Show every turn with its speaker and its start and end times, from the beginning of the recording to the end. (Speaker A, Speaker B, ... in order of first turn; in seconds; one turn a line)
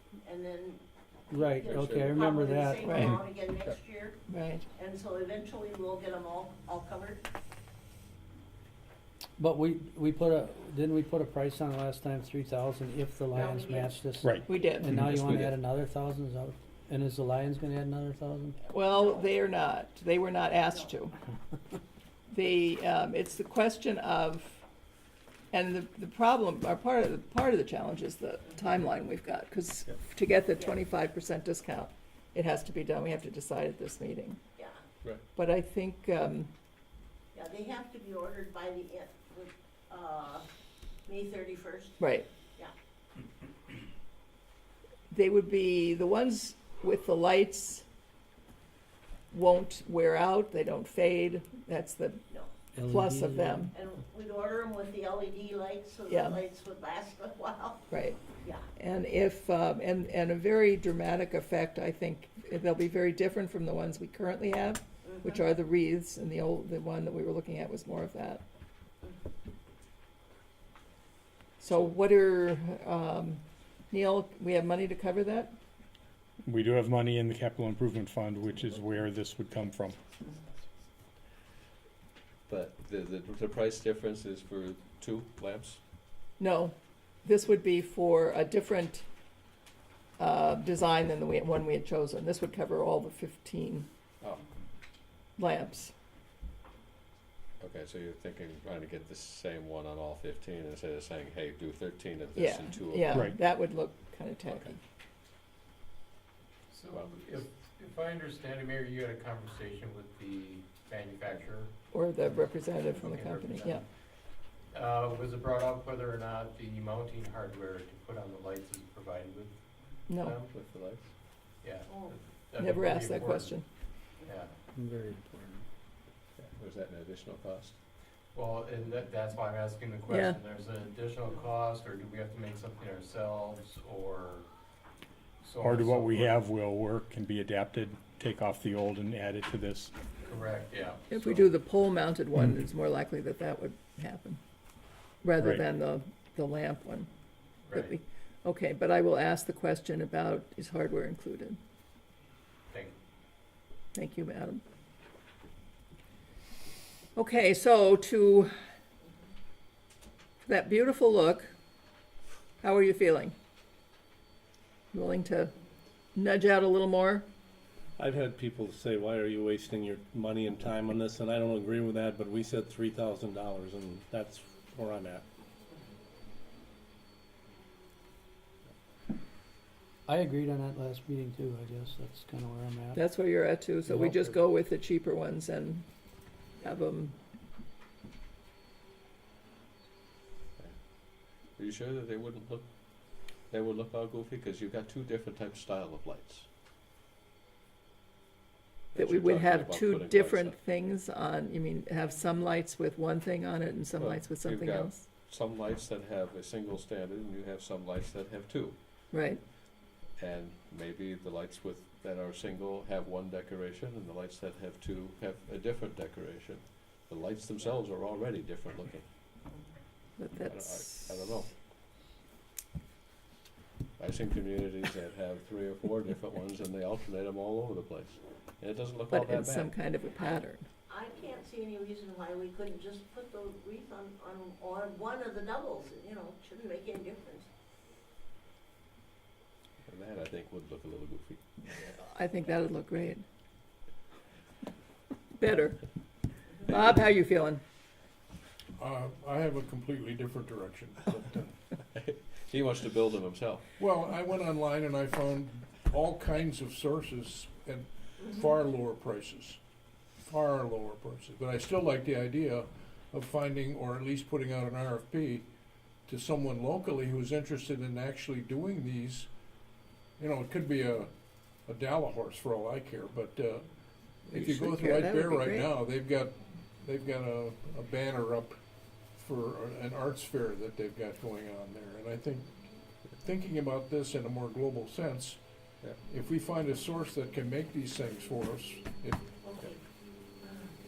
Speaker A: 0.2-0.8
Speaker B: 1.3-3.0
Speaker A: 1.4-4.2
Speaker C: 1.7-2.1
Speaker D: 2.8-3.2
Speaker D: 4.3-4.7
Speaker A: 4.7-7.2
Speaker B: 9.4-18.6
Speaker A: 13.3-14.0
Speaker E: 14.2-14.5
Speaker D: 14.5-14.9
Speaker C: 15.0-15.5
Speaker D: 18.7-21.2
Speaker D: 22.3-24.6
Speaker D: 25.5-34.4
Speaker D: 35.3-36.5
Speaker A: 37.3-40.5
Speaker A: 41.0-42.0
Speaker D: 42.0-42.3
Speaker D: 45.1-47.8
Speaker D: 49.3-52.2
Speaker B: 52.8-53.6
Speaker D: 52.9-53.7
Speaker A: 53.7-57.9
Speaker D: 56.1-56.4
Speaker D: 57.9-58.2
Speaker A: 58.4-58.7
Speaker D: 58.8-68.4
Speaker A: 65.0-65.4
Speaker D: 71.6-75.5
Speaker E: 76.5-80.0
Speaker C: 82.5-85.8
Speaker D: 86.4-89.0
Speaker D: 90.2-93.9
Speaker C: 94.2-94.5
Speaker D: 95.4-95.9
Speaker C: 97.6-103.2
Speaker D: 102.4-104.8
Speaker E: 103.1-103.4
Speaker F: 106.7-111.7
Speaker C: 106.9-107.2
Speaker D: 111.9-113.8
Speaker F: 112.9-113.9
Speaker F: 114.7-120.5
Speaker D: 120.1-120.3
Speaker C: 120.5-121.1
Speaker F: 121.6-123.5
Speaker A: 121.9-122.1
Speaker D: 122.6-123.7
Speaker F: 124.2-124.5
Speaker G: 124.8-125.6
Speaker C: 126.4-127.8
Speaker F: 128.3-134.5
Speaker D: 130.1-130.4
Speaker F: 135.4-136.4
Speaker E: 135.6-139.9
Speaker F: 140.2-141.5
Speaker D: 141.1-144.4
Speaker D: 145.2-147.1
Speaker F: 147.7-147.9
Speaker D: 147.7-151.6
Speaker D: 153.9-154.6
Speaker D: 157.2-158.5
Speaker D: 160.4-161.5
Speaker D: 162.6-163.3
Speaker D: 164.9-165.5
Speaker D: 166.1-167.2
Speaker G: 168.0-175.2
Speaker B: 180.1-183.0
Speaker D: 182.9-185.9
Speaker B: 183.8-184.3
Speaker D: 186.6-187.2
Speaker C: 191.6-196.5
Speaker C: 198.9-200.6
Speaker D: 198.9-205.0
Speaker C: 204.0-208.8
Speaker D: 209.1-209.4
Speaker C: 210.2-219.1
Speaker D: 220.2-221.3
Speaker C: 220.5-221.5
Speaker C: 224.0-229.7
Speaker D: 229.1-230.7
Speaker A: 230.2-237.5
Speaker C: 239.8-241.9
Speaker D: 241.9-243.2
Speaker D: 245.4-245.8
Speaker D: 246.6-247.6
Speaker H: 248.8-251.5
Speaker C: 251.9-253.6
Speaker H: 253.8-259.6
Speaker H: 260.2-265.5
Speaker H: 266.1-269.3
Speaker H: 270.2-271.1
Speaker H: 271.6-273.7
Speaker H: 274.2-278.6
Speaker D: 274.3-275.7
Speaker H: 279.1-282.6
Speaker H: 283.1-285.4
Speaker H: 286.0-289.2
Speaker A: 289.4-289.8
Speaker A: 290.4-290.7